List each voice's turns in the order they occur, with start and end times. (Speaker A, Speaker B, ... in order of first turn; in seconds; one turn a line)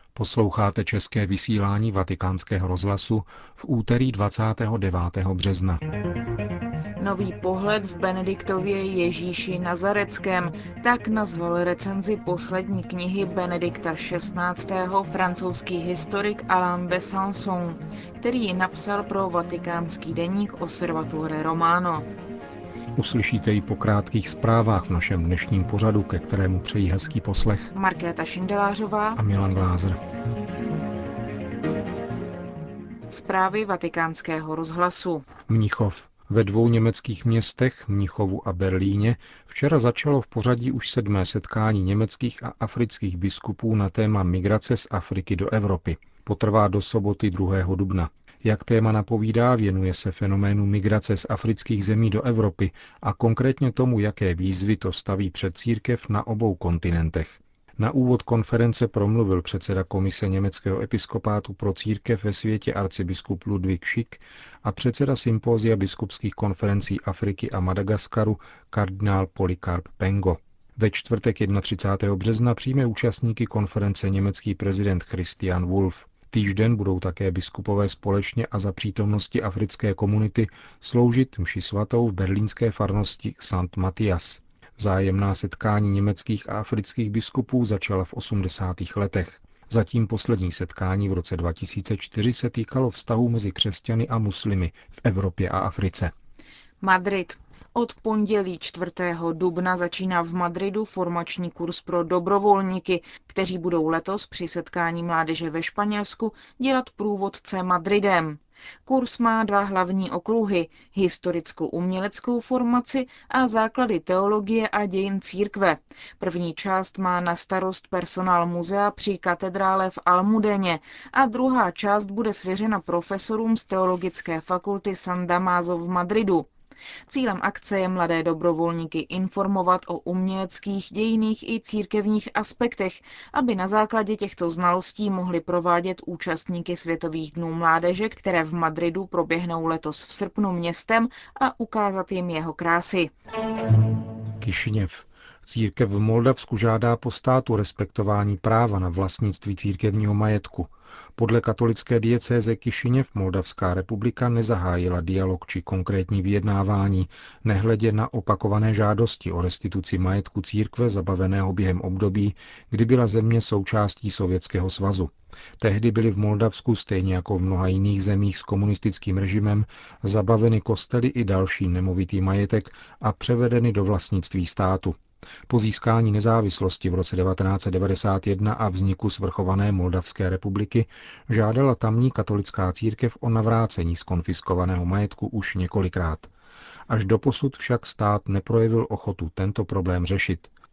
Speaker A: 0.1-5.8
Speaker B: 7.0-22.1
Speaker A: 23.0-27.7
Speaker B: 27.7-29.2
Speaker A: 29.2-30.0
Speaker B: 33.1-35.3
Speaker A: 35.5-96.1
Speaker B: 96.8-126.5
Speaker B: 127.1-143.1
Speaker A: 144.4-175.0
Speaker A: 175.5-186.3
Speaker A: 186.9-190.5